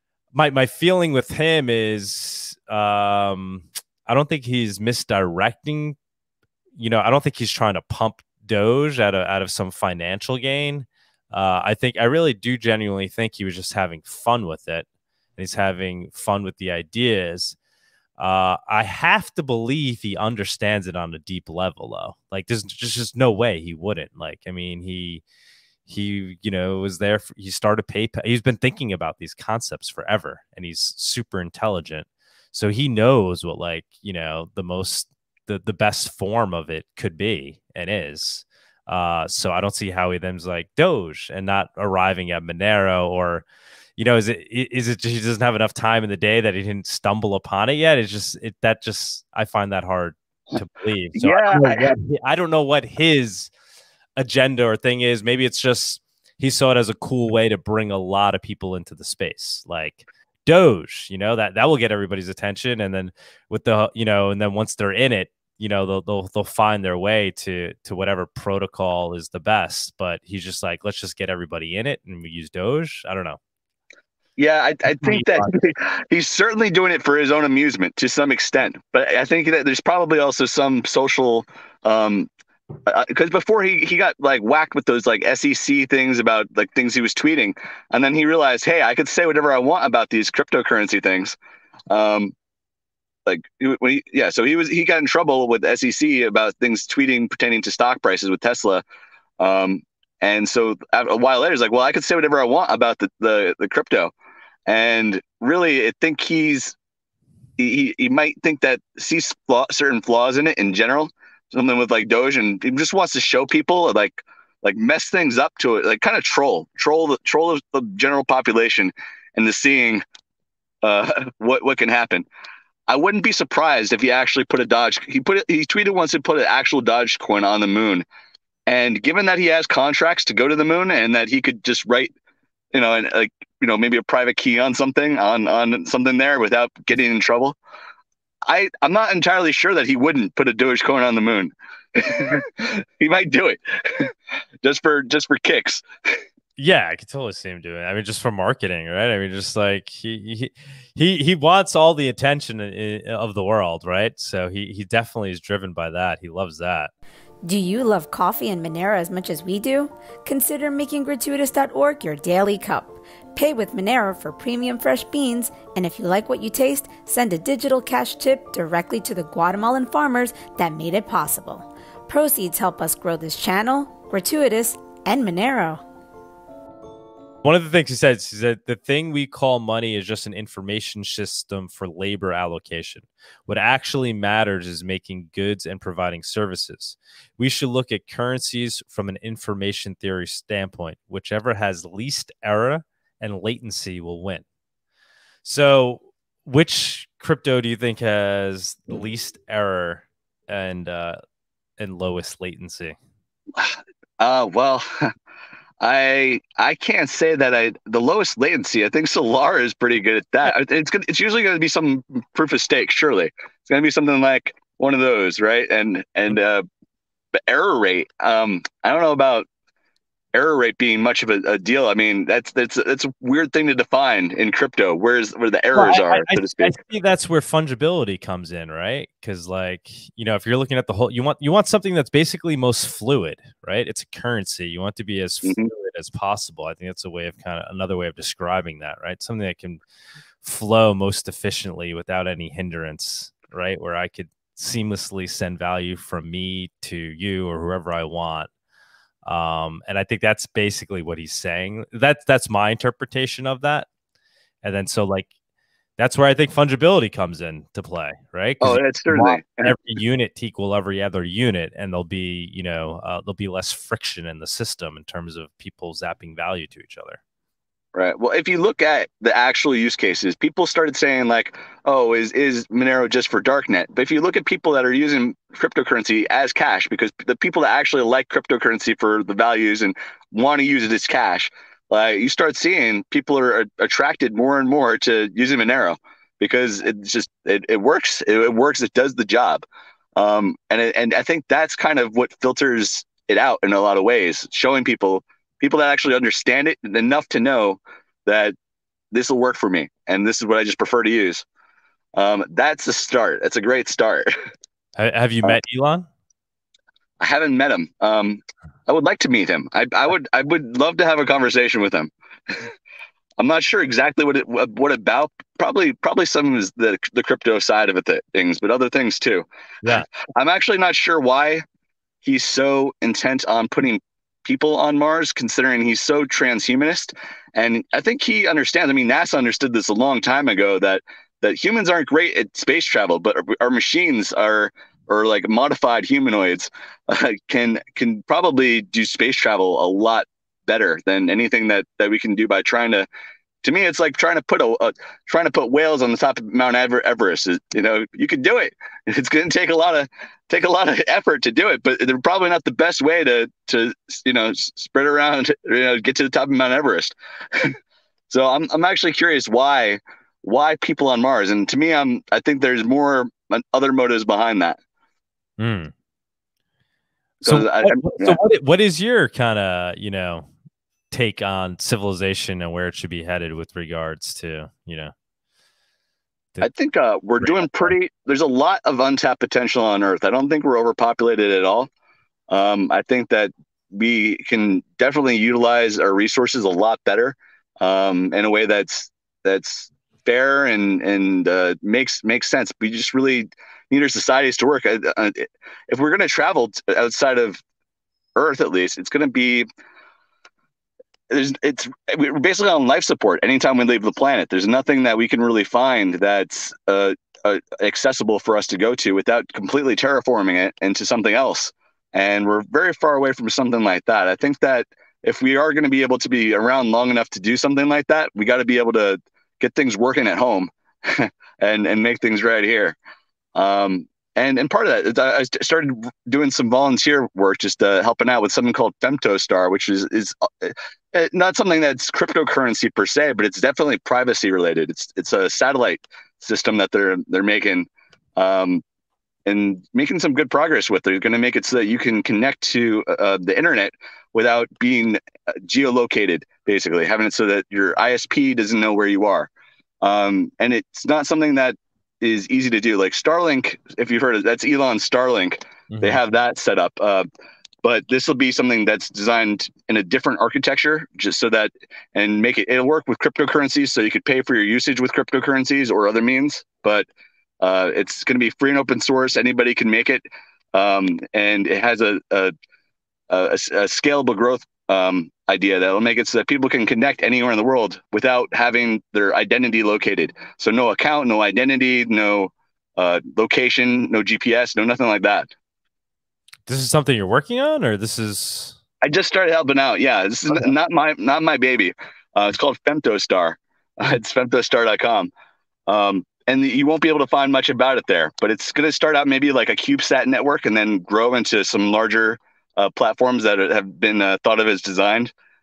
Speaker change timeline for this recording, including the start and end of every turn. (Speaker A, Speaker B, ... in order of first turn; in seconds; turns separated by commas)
Speaker A: 0.3-6.0, Speaker A: 6.8-14.9, Speaker A: 15.4-17.6, Speaker A: 18.2-25.2, Speaker A: 25.9-43.4, Speaker A: 44.0-53.5, Speaker B: 51.1-51.9, Speaker A: 54.2-73.4, Speaker B: 74.4-82.3, Speaker A: 74.9-75.7, Speaker B: 82.9-91.4, Speaker B: 91.9-92.3, Speaker B: 93.3-98.8, Speaker B: 99.4-104.1, Speaker B: 104.7-106.8, Speaker B: 107.6-120.0, Speaker B: 120.8-122.3, Speaker B: 122.9-128.1, Speaker B: 128.7-132.1, Speaker B: 132.7-137.6, Speaker B: 138.5-145.8, Speaker A: 146.6-156.9, Speaker C: 157.4-175.8, Speaker A: 177.4-194.4, Speaker A: 195.4-201.2, Speaker A: 201.8-203.0, Speaker B: 203.6-205.1, Speaker B: 205.8-216.6, Speaker B: 217.4-219.5, Speaker B: 220.3-226.8, Speaker A: 225.7-239.8, Speaker B: 235.4-235.7, Speaker A: 240.4-248.5, Speaker A: 249.2-253.9, Speaker A: 254.6-255.3, Speaker A: 256.0-267.2, Speaker B: 258.6-259.8, Speaker B: 267.9-289.6, Speaker B: 290.1-298.6, Speaker B: 299.1-301.4, Speaker B: 302.1-304.3, Speaker A: 304.9-306.1, Speaker B: 307.2-312.7, Speaker B: 313.4-319.5, Speaker B: 320.3-321.6, Speaker B: 322.2-343.1, Speaker B: 343.6-357.7, Speaker B: 358.3-364.8, Speaker A: 365.6-365.9, Speaker B: 367.4-368.4, Speaker A: 367.4-370.5, Speaker A: 371.1-375.1, Speaker B: 376.6-381.9, Speaker A: 377.4-377.9, Speaker B: 382.5-397.6, Speaker B: 398.3-399.6, Speaker B: 401.3-422.9, Speaker B: 423.6-438.8, Speaker B: 439.4-449.5, Speaker B: 450.0-457.3, Speaker A: 455.9-456.2, Speaker B: 457.8-467.1, Speaker B: 467.6-470.2, Speaker B: 470.7-472.5, Speaker B: 473.3-485.5, Speaker A: 486.7-488.8, Speaker B: 489.0-495.3, Speaker B: 495.9-505.3